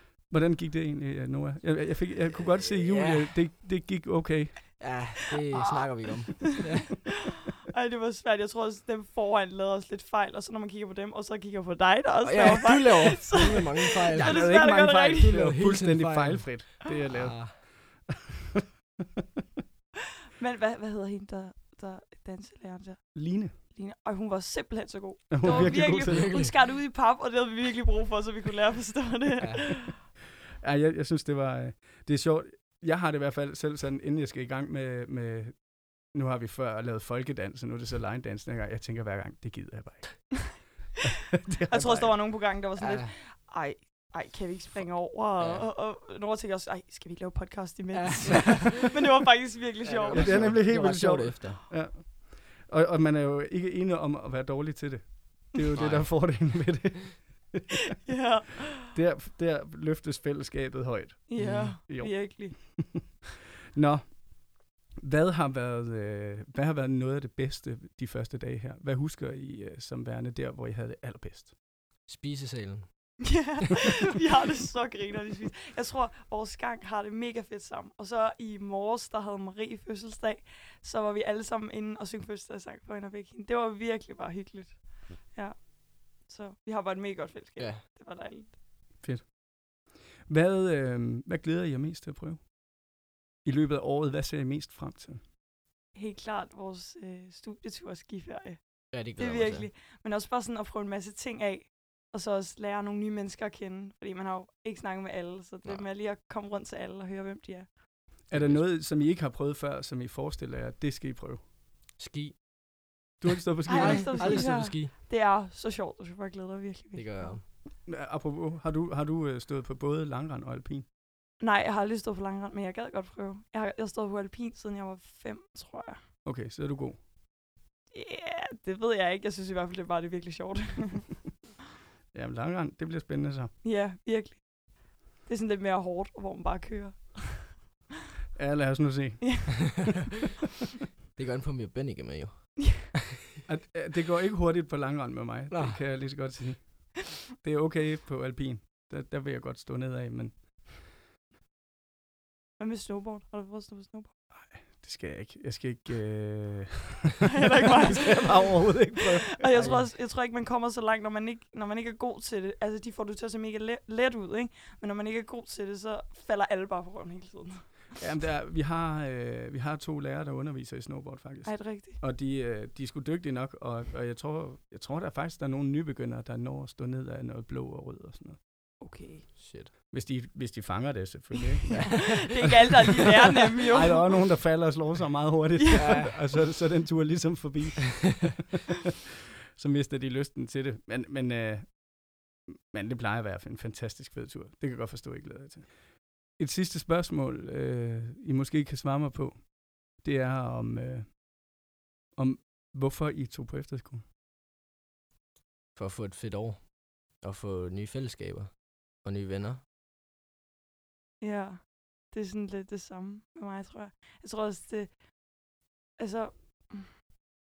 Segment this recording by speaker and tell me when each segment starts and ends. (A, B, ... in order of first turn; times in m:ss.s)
0:00.3-0:04.9 A
0:02.3-0:03.5 B
0:04.8-0:07.1 B
0:07.7-0:15.3 C
0:12.2-0:14.5 B
0:14.1-0:18.1 A
0:15.2-0:17.6 B
0:20.4-0:29.9 C
0:23.1-0:23.5 A
0:25.3-0:26.5 A
0:26.0-0:26.6 B
0:29.4-0:29.8 B
0:30.6-0:40.7 A
0:41.4-0:42.2 A
0:41.7-0:50.6 C
0:42.8-0:43.1 B
0:45.4-0:45.7 B
0:47.9-0:49.0 B
0:49.8-0:51.6 B
0:50.1-0:57.8 A
0:55.7-0:56.1 B
0:58.0-0:58.9 C
0:58.9-1:03.0 A
1:01.3-1:02.6 C
1:01.4-1:01.8 B
1:03.7-1:11.5 A
1:12.0-1:12.9 B
1:13.2-1:28.6 C
1:27.6-1:27.8 B
1:29.0-1:29.3 A
1:30.2-1:32.5 A
1:33.4-1:35.2 A
1:35.9-1:47.8 C
1:38.9-1:39.7 B
1:48.3-1:51.4 A
1:48.3-1:48.7 B
1:52.0-1:52.4 B
1:53.2-1:54.6 A
1:53.7-1:54.9 B
1:53.7-1:57.4 C
1:56.9-1:57.4 B
1:57.8-2:00.8 A
2:01.4-2:06.1 C
2:06.2-2:07.0 A
2:07.9-2:11.2 C
2:12.1-2:13.5 A
2:13.6-2:14.6 C
2:15.2-2:17.7 C
2:18.4-2:20.0 A
2:19.2-2:19.6 C
2:21.2-2:23.0 B
2:23.4-2:30.5 A
2:25.5-2:25.9 B
2:32.6-2:34.1 C
2:34.3-2:39.6 A
2:37.3-2:47.9 C
2:39.5-2:39.9 B
2:48.0-2:58.4 A
2:51.4-2:52.0 C
2:58.8-2:59.3 C
2:59.4-2:59.7 B
2:59.9-3:02.4 A
3:01.7-3:04.1 C
3:01.7-3:02.5 B
3:03.7-3:08.5 A
3:05.6-3:05.9 C
3:05.7-3:06.2 B
3:09.6-3:21.2 A
3:22.1-3:24.0 A
3:25.7-3:29.6 B
3:31.2-3:35.1 C
3:36.0-3:37.0 C